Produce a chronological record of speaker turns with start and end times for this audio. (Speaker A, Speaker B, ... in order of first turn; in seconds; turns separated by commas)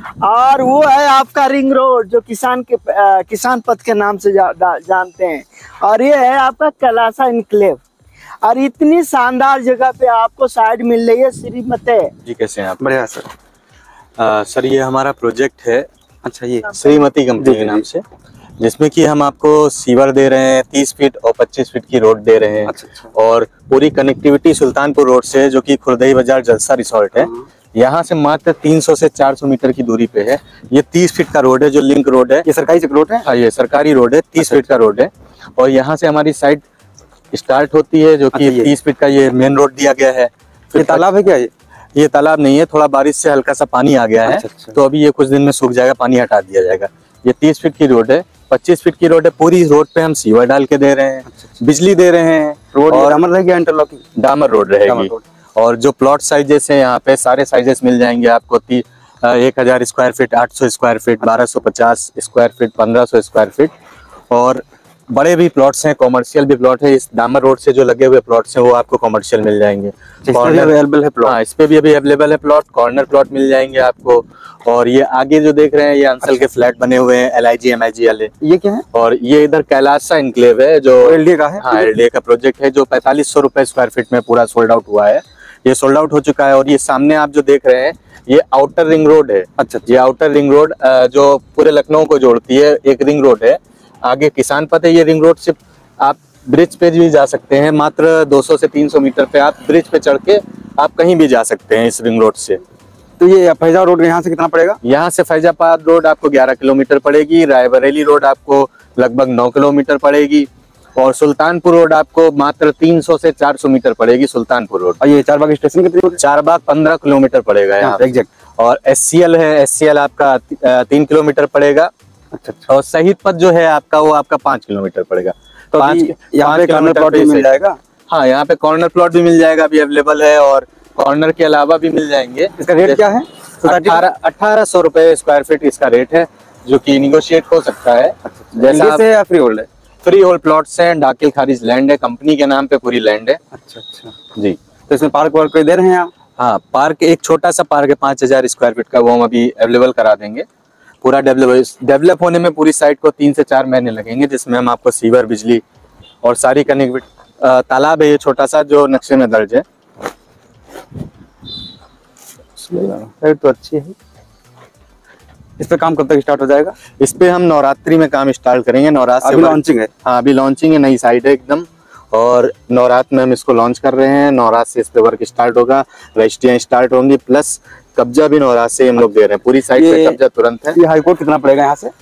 Speaker A: 0.2-7.8, Speaker A: 8.4-12.1, Speaker B: 12.2-12.9, Speaker C: 12.8-13.3, Speaker B: 14.2-15.9, Speaker C: 16.2-16.8, Speaker B: 16.7-18.0, Speaker C: 17.4-17.8, Speaker B: 18.6-32.5, Speaker C: 22.7-23.1, Speaker C: 32.5-33.3, Speaker B: 33.2-36.6, Speaker B: 37.3-41.0, Speaker C: 38.3-38.7, Speaker C: 40.8-41.5, Speaker B: 42.0-53.2, Speaker C: 44.2-44.8, Speaker C: 52.7-54.0, Speaker B: 54.2-63.7, Speaker C: 54.9-55.2, Speaker B: 64.3-78.3, Speaker C: 70.2-71.4, Speaker C: 78.4-78.8, Speaker B: 78.9-102.6, Speaker C: 81.0-81.9, Speaker C: 89.6-89.9, Speaker C: 103.2-104.8, Speaker B: 104.8-115.0, Speaker C: 115.0-116.2, Speaker B: 116.2-118.1, Speaker C: 117.8-118.3, Speaker B: 118.6-121.9, Speaker C: 122.3-122.7, Speaker B: 122.7-127.6, Speaker C: 125.7-127.8, Speaker B: 128.1-133.0, Speaker C: 132.6-134.0, Speaker B: 133.6-139.0, Speaker C: 138.3-139.7, Speaker B: 140.0-143.4, Speaker C: 143.5-144.2, Speaker C: 144.9-146.1, Speaker B: 146.4-150.5, Speaker B: 151.0-155.6, Speaker B: 156.2-159.6, Speaker C: 162.6-163.9, Speaker C: 165.6-166.8, Speaker B: 167.0-180.8, Speaker C: 169.2-169.9, Speaker C: 179.8-180.2, Speaker C: 180.7-181.9